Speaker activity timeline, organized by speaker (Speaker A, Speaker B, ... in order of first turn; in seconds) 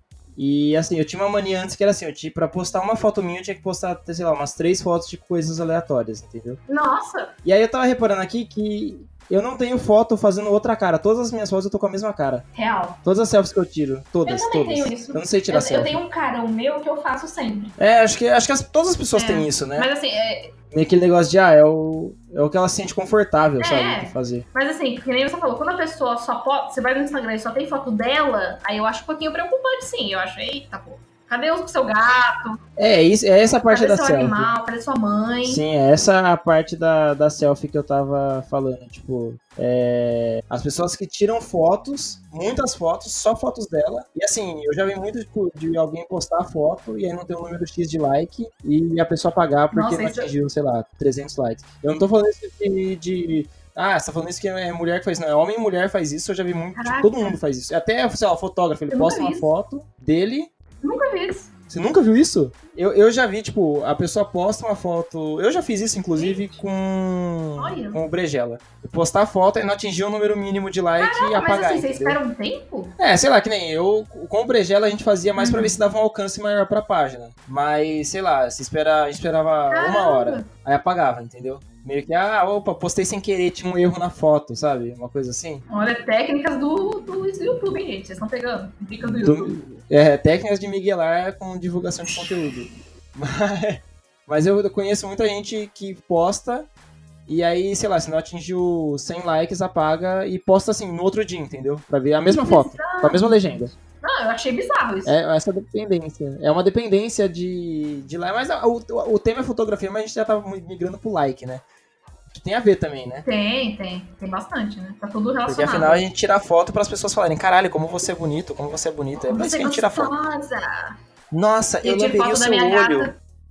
Speaker A: 0.4-6.6, 7.4-12.4, 13.1-16.0, 17.8-19.9, 20.7-24.4, 32.8-34.5, 35.5-60.5, 61.7-72.2, 73.0-85.6, 89.0-96.7, 97.3-103.7, 105.0-111.6, 112.3-113.3, 115.5-120.1, 121.3-123.1
Speaker B: 6.7-7.3, 12.5-13.0, 14.2-17.8, 19.1-20.5, 23.6-32.6, 33.7-35.6, 49.7-50.3, 56.7-57.4, 58.9-59.5, 60.8-61.5, 66.2-66.6, 67.6-68.0, 71.0-73.0, 75.4-75.8, 79.7-80.5, 85.7-89.5, 102.3-105.2, 113.2-116.0, 119.2-121.0, 121.8-123.2